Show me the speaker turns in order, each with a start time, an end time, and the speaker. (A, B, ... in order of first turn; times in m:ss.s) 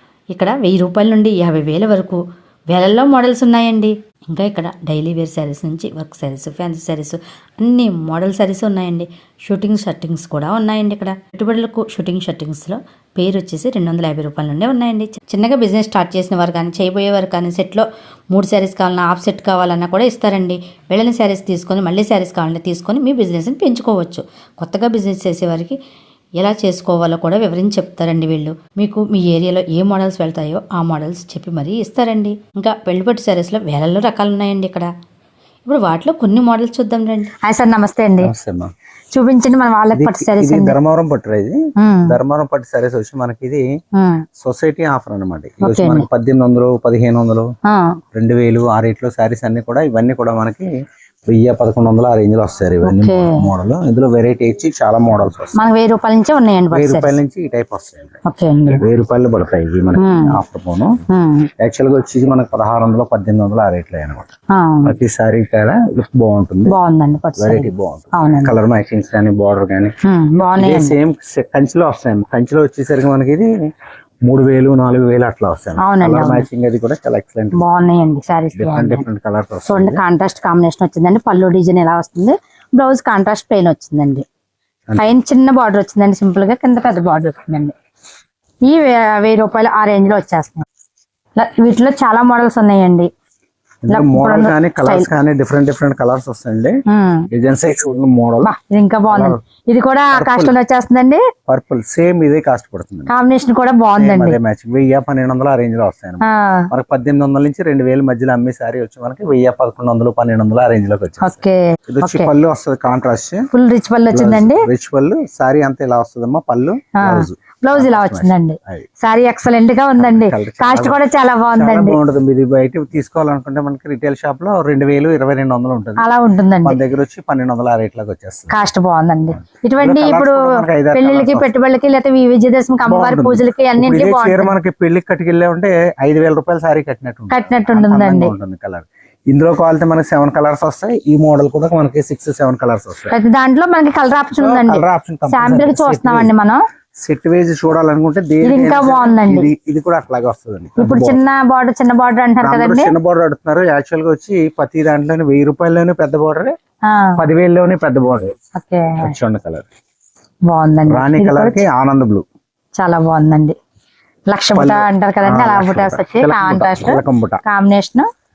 0:00.3-0:01.5 A
0:00.4-0:02.2 B
0:02.7-0:03.9 B
0:02.7-0:25.8 A
0:04.4-0:07.1 B
0:07.9-0:08.7 B
0:09.5-0:12.4 B
0:13.3-0:17.0 B
0:17.5-0:17.8 B
0:18.7-0:20.5 B
0:23.2-0:24.1 B
0:24.7-0:25.4 B
0:26.4-0:34.9 A
0:26.7-0:34.6 B
0:35.7-0:36.8 A
0:35.7-0:38.3 B
0:38.2-0:38.7 C
0:39.1-0:40.8 B
0:40.0-0:43.6 C
0:41.8-0:42.2 B
0:44.0-0:44.2 B
0:44.4-0:47.5 C
0:45.6-0:46.1 B
0:47.7-0:48.0 B
0:48.2-0:50.7 C
0:51.3-0:55.6 C
0:52.8-0:53.5 B
0:55.6-0:57.2 B
0:56.7-0:58.2 C
0:58.2-0:58.8 B
0:58.8-1:01.0 C
1:00.0-1:00.4 B
1:01.1-1:01.5 B
1:01.6-1:04.3 C
1:04.5-1:05.0 B
1:04.8-1:06.8 C
1:06.7-1:08.6 B
1:07.4-1:13.7 C
1:10.1-1:11.0 B
1:14.2-1:17.6 C
1:15.8-1:16.5 B
1:17.6-1:19.0 B
1:18.6-1:20.0 C
1:19.7-1:24.2 B
1:25.0-1:27.8 B
1:28.6-1:30.7 B
1:31.4-1:33.1 B
1:33.8-1:36.8 C
1:33.9-1:35.1 B
1:36.9-1:37.3 B
1:37.3-1:38.5 C
1:38.4-1:41.2 B
1:39.1-1:39.4 C
1:40.1-1:40.6 C
1:41.5-1:43.1 C
1:43.1-1:44.4 B
1:44.0-1:53.5 C
1:46.2-1:46.7 B
1:51.2-1:52.3 B
1:53.5-1:54.7 B
1:54.1-1:58.9 C
1:57.0-2:02.0 B
2:00.0-2:01.0 C
2:01.6-2:06.0 C
2:06.0-2:06.8 B
2:06.6-2:08.5 C
2:08.5-2:14.5 B
2:09.8-2:11.5 C
2:12.9-2:23.2 C
2:17.3-2:18.3 B
2:23.1-2:26.6 B
2:24.4-2:26.3 C
2:27.0-2:31.2 C
2:28.4-2:29.5 B
2:30.8-2:32.9 B
2:32.4-2:36.5 C
2:36.9-2:37.2 B
2:37.2-2:38.3 C
2:38.6-2:39.1 B
2:39.0-2:39.7 C
2:40.5-2:41.6 B
2:40.9-2:42.2 C
2:42.8-2:43.6 B
2:44.3-2:48.1 B
2:44.6-2:47.4 C